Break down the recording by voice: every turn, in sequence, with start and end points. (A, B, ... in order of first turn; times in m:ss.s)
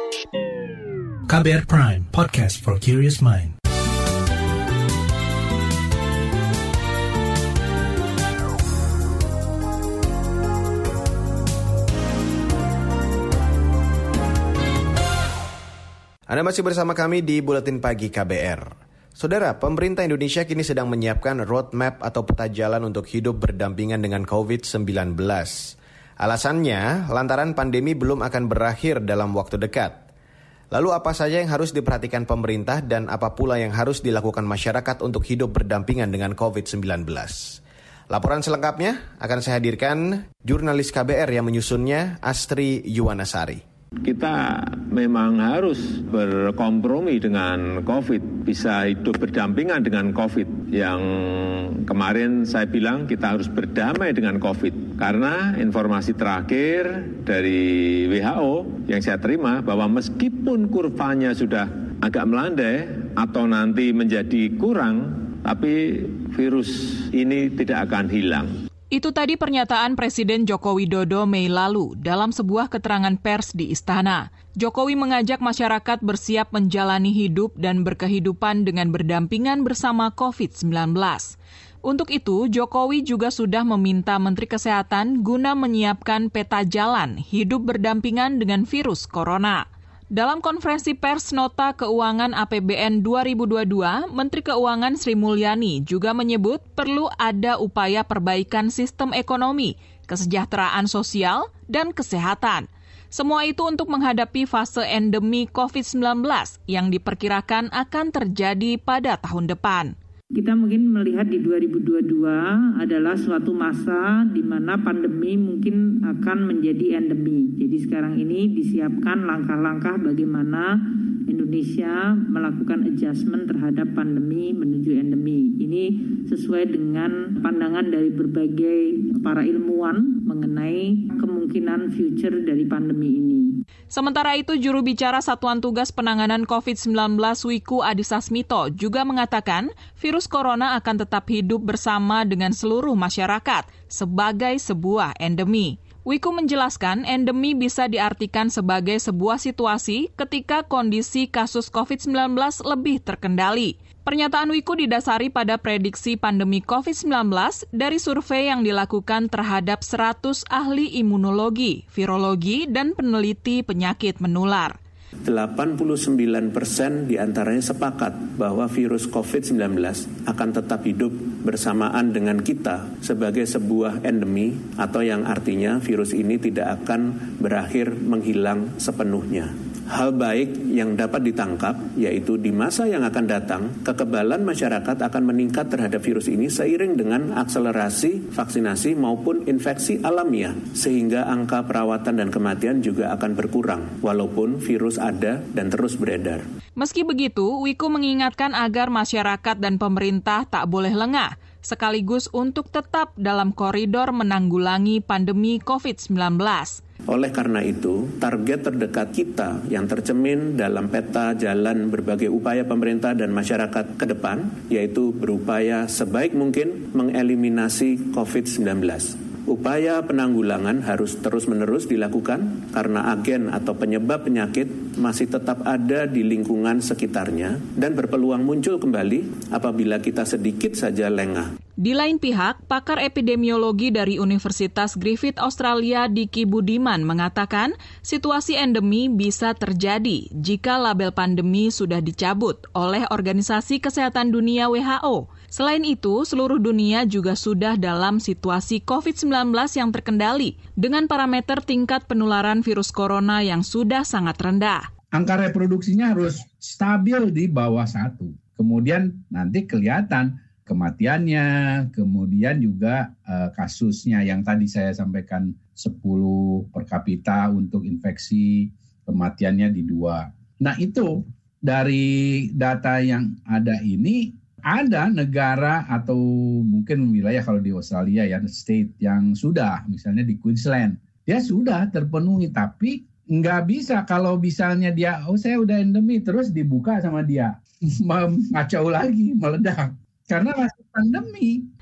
0:01.3-0:03.5 A
0:16.3-0:30.0 B
0:30.7-0:43.6 B
0:44.0-1:08.6 C
1:08.9-1:49.9 D
1:50.4-2:13.6 E
2:13.9-2:44.8 D
2:45.3-3:16.4 F
3:16.8-3:26.8 D
3:27.1-3:51.5 F
3:51.8-4:14.8 D
4:15.1-4:51.7 G